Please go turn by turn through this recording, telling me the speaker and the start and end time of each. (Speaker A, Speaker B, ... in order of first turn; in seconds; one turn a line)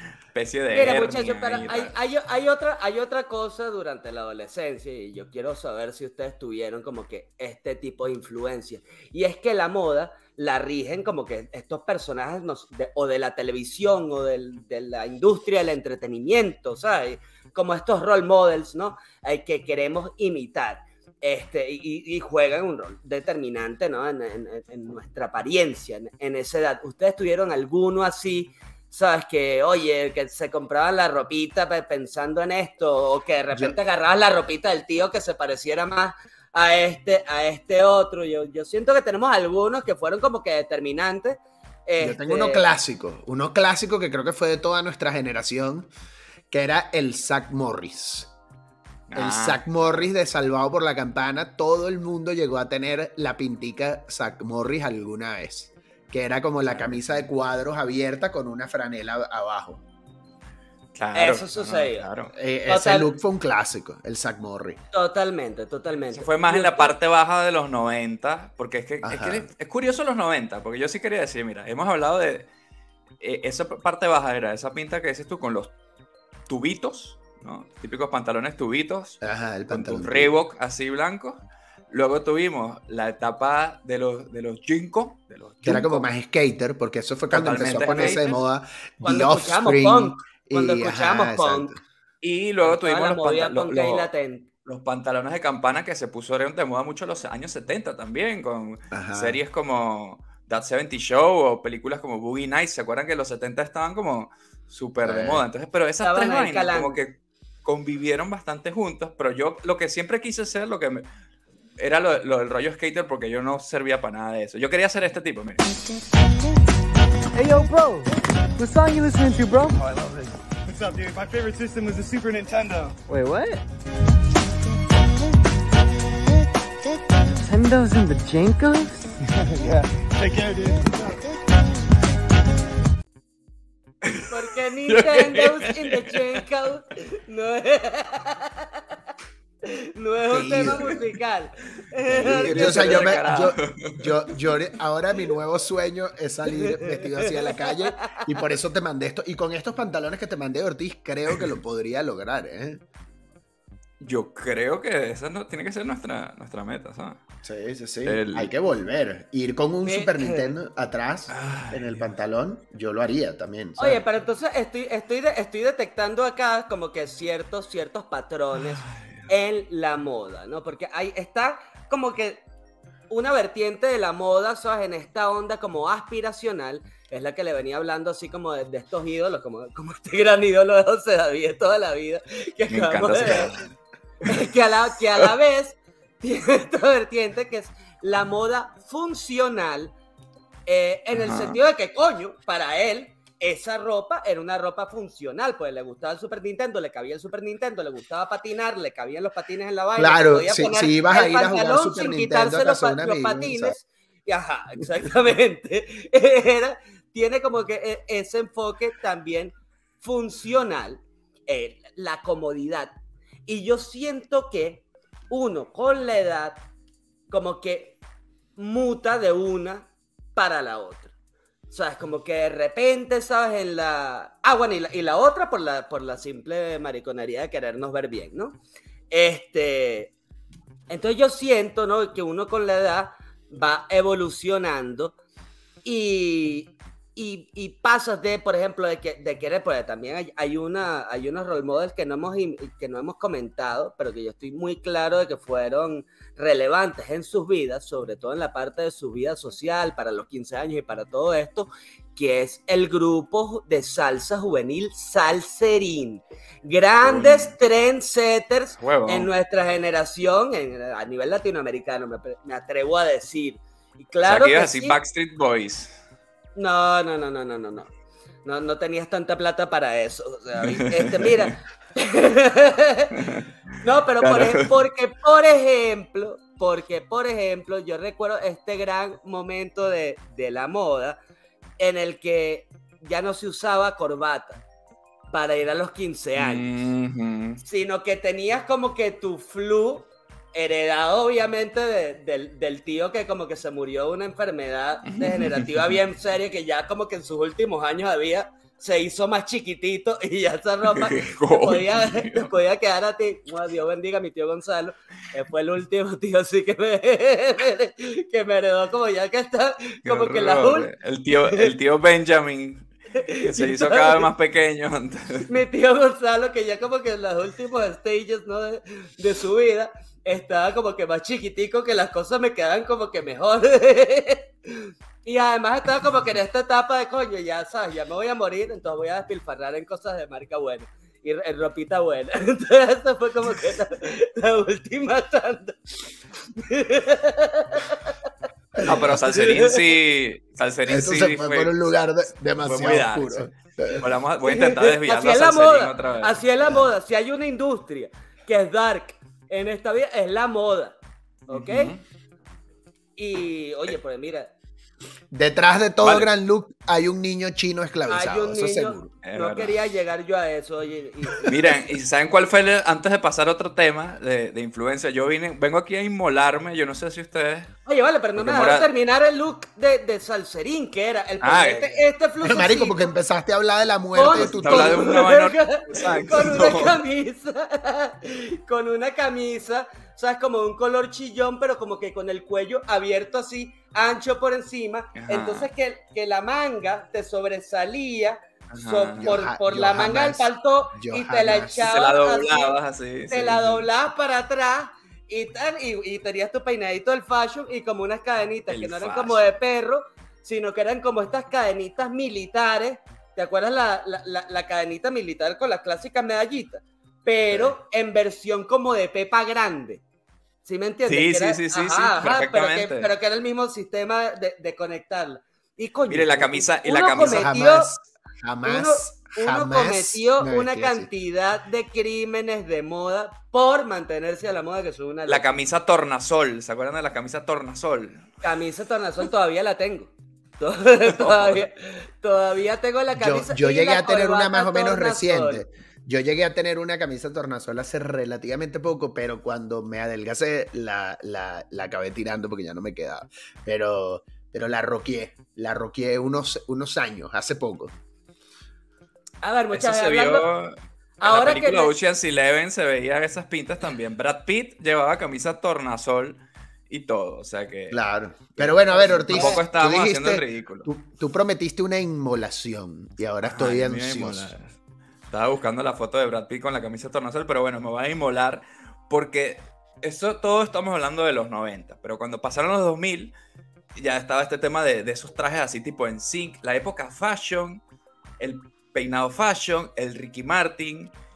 Speaker A: 0.3-1.9
Speaker B: 0.7-42.7
Speaker C: 42.0-45.9
Speaker C: 46.5-48.3
Speaker A: 49.1-49.9
Speaker C: 49.1-59.8
Speaker A: 56.7-57.0
Speaker A: 60.9-62.3
Speaker B: 61.1-62.1
Speaker C: 62.3-64.8
Speaker B: 62.7-63.1
Speaker B: 64.9-66.9
Speaker A: 66.1-72.5
Speaker C: 69.0-69.5
Speaker A: 73.2-75.7
Speaker A: 76.5-86.1
Speaker C: 79.2-80.3
Speaker C: 85.6-91.8
Speaker A: 87.3-88.2
Speaker B: 87.6-88.4
Speaker B: 89.0-91.7
Speaker A: 92.2-94.1
Speaker B: 92.6-94.5
Speaker A: 94.6-111.0
Speaker C: 98.9-99.4
Speaker C: 105.0-105.4
Speaker B: 106.0-107.0
Speaker A: 111.8-115.6
Speaker D: 117.3-120.3
Speaker E: 120.7-123.0
Speaker D: 123.1-123.6
Speaker D: 127.4-129.1
Speaker E: 129.4-131.2
Speaker A: 134.0-134.3
Speaker B: 134.3-138.8
Speaker A: 134.9-136.4
Speaker B: 139.7-143.2
Speaker C: 140.3-141.0
Speaker C: 142.1-152.8
Speaker A: 142.4-144.5
Speaker B: 146.6-148.4
Speaker A: 154.0-157.2
Speaker C: 157.4-164.0
Speaker A: 158.0-158.5
Speaker B: 159.8-160.5
Speaker A: 161.3-162.1
Speaker B: 163.8-172.4
Speaker A: 168.8-169.2
Speaker B: 173.1-183.5
Speaker A: 182.7-183.7
Speaker B: 184.2-189.9
Speaker B: 190.7-212.9
Speaker A: 191.1-191.6
Speaker C: 200.0-203.8
Speaker B: 213.5-216.6
Speaker B: 217.3-218.0
Speaker B: 218.6-221.1
Speaker B: 221.7-230.1
Speaker B: 230.9-235.1
Speaker B: 235.8-265.0
Speaker A: 257.0-257.5
Speaker A: 258.8-259.3
Speaker A: 264.2-265.9
Speaker B: 266.6-267.9
Speaker B: 268.4-273.2
Speaker A: 270.7-271.5
Speaker A: 273.2-273.5
Speaker B: 273.8-281.2
Speaker A: 274.2-274.8
Speaker B: 281.8-284.6
Speaker B: 285.3-286.9
Speaker A: 286.4-287.6
Speaker B: 287.6-310.9
Speaker A: 295.1-296.0
Speaker A: 300.9-302.5
Speaker A: 310.1-312.9
Speaker B: 313.1-314.3
Speaker A: 313.4-315.5
Speaker B: 315.5-335.9
Speaker B: 336.5-338.1
Speaker C: 338.8-339.0
Speaker A: 338.8-341.8
Speaker B: 338.9-339.8
Speaker C: 340.9-344.0
Speaker A: 342.6-346.3
Speaker B: 344.5-350.9
Speaker C: 346.6-346.9
Speaker B: 351.5-351.9
Speaker A: 351.5-352.0
Speaker B: 353.2-354.5
Speaker C: 355.3-359.1
Speaker A: 356.0-356.3
Speaker B: 358.1-361.8
Speaker A: 359.2-359.7
Speaker A: 361.4-367.7
Speaker B: 367.9-373.1
Speaker A: 368.4-368.9
Speaker A: 371.4-372.0
Speaker C: 372.4-375.1
Speaker B: 374.1-392.7
Speaker A: 374.3-377.0
Speaker A: 385.2-385.7
Speaker A: 388.7-389.3
Speaker C: 389.2-391.8
Speaker A: 391.8-393.9
Speaker B: 393.3-410.0
Speaker A: 398.7-399.5
Speaker B: 410.6-417.9
Speaker A: 411.1-413.1
Speaker A: 416.1-417.5
Speaker C: 417.1-421.1
Speaker B: 418.6-425.4
Speaker A: 425.3-428.3
Speaker B: 428.4-435.6
Speaker A: 431.1-431.6
Speaker C: 433.1-447.9
Speaker B: 449.4-450.4
Speaker A: 449.7-456.4
Speaker B: 451.2-451.9
Speaker A: 456.9-458.0
Speaker C: 457.9-464.5
Speaker A: 458.6-460.9
Speaker B: 458.9-459.6
Speaker A: 463.4-464.7
Speaker A: 465.3-473.3
Speaker A: 473.9-477.8
Speaker A: 478.4-481.1